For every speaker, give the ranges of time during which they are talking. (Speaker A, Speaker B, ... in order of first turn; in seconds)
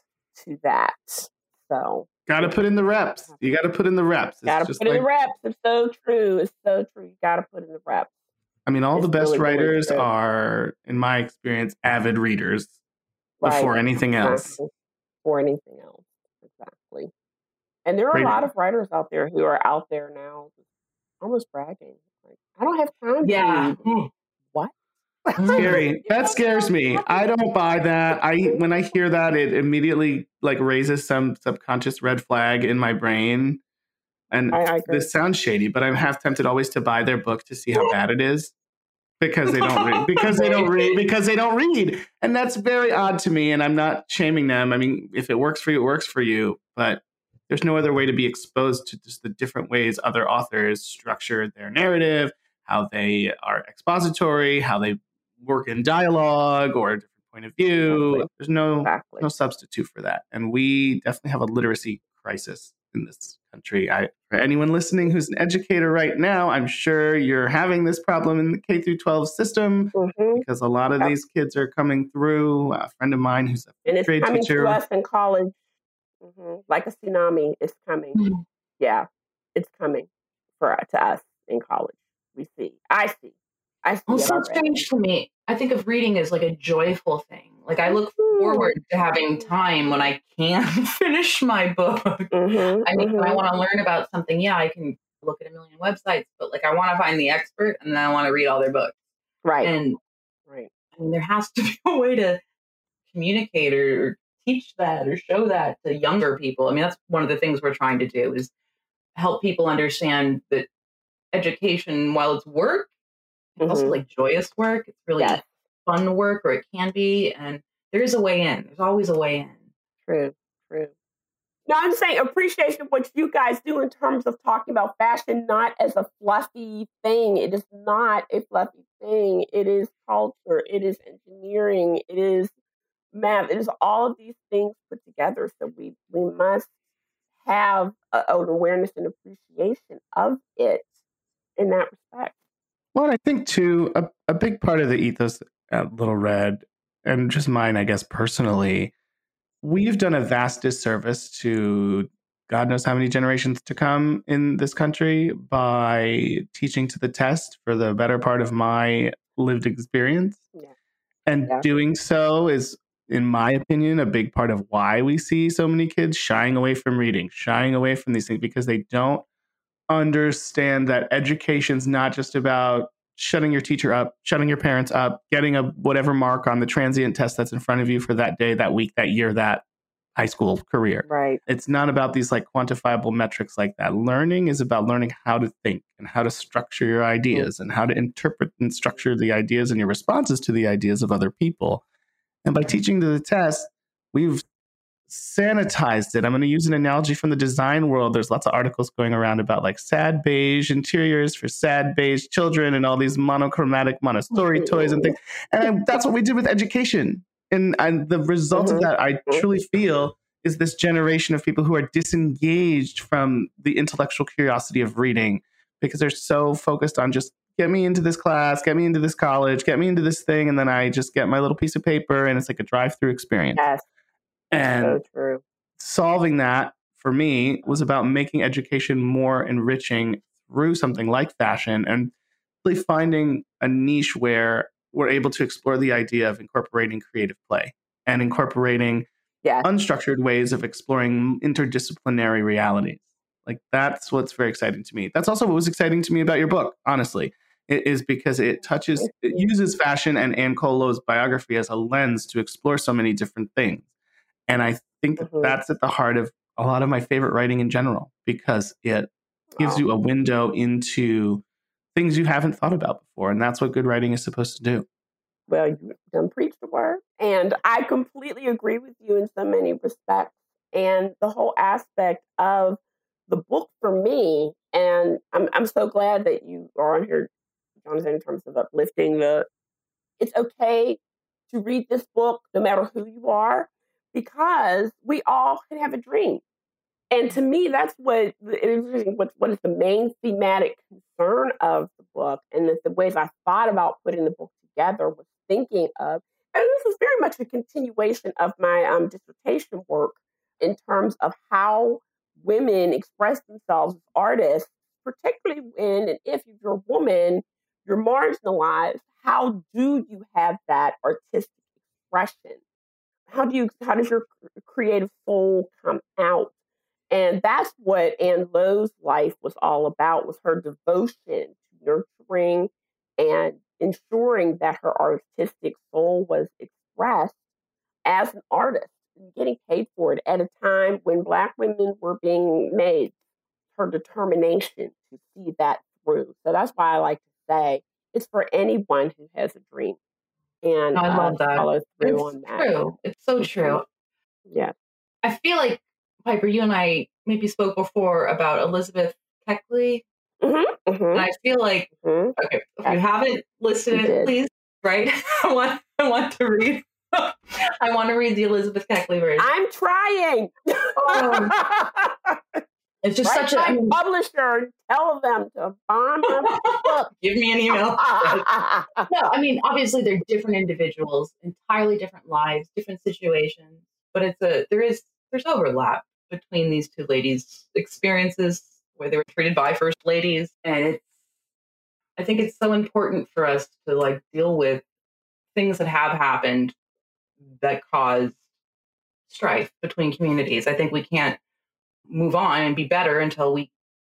Speaker A: 0.3-2.5, 4.5-8.1, 8.9-10.1, 13.4-14.7, 15.2-17.1, 17.9-20.5, 21.2-23.8, 25.3-27.3, 34.5-35.1, 40.3-40.7, 57.8-58.3, 58.8-59.3, 70.0-70.4, 73.9-75.5, 76.2-78.2, 78.8-80.1, 80.6-83.3, 83.8-84.6, 87.9-88.7, 92.3-93.4, 99.4-99.7, 113.6-114.0, 115.2-115.5, 120.1-120.9, 121.7-132.5, 133.1-136.7, 137.4-140.9, 141.6-142.3, 181.1-181.4, 204.5-205.1, 208.5-209.5, 223.6-223.8, 224.6-225.4, 255.2-255.6, 259.5-259.8, 265.5-277.3, 277.9-279.5, 280.2-286.4, 287.1-311.6, 312.1-312.6, 313.3-316.5, 317.1-327.4, 328.1-333.1, 333.8-340.0, 340.6-342.7, 343.4-343.8, 344.5-344.7, 350.4-351.3, 352.0-353.0, 353.9-354.3, 359.4-362.6, 363.2-367.1, 367.7-369.1
Speaker B: 2.3-5.0, 8.7-12.7, 13.4-14.6, 18.1-18.4, 25.3-33.6, 34.3-38.5, 39.2-74.8, 142.9-148.9, 149.6-160.4, 161.3-169.2, 169.9-179.6, 180.2-191.8, 192.4-194.4, 195.1-223.6, 224.5-225.0, 225.8-232.1, 232.6-239.1, 239.6-253.9, 254.5-261.4, 261.9-264.9
Speaker C: 23.2-24.1, 25.4-25.8, 78.2-78.4, 84.1-99.0, 99.6-100.0, 101.0-102.4, 103.1-108.5, 109.2-110.7, 111.3-112.9, 113.6-119.6, 340.9-343.9, 345.2-350.0, 351.1-359.5, 361.0-361.5, 363.0-364.0, 366.4-368.5, 369.1-381.1, 382.2-384.8, 385.6-386.8, 387.5-388.4, 389.3-391.4, 392.1-393.7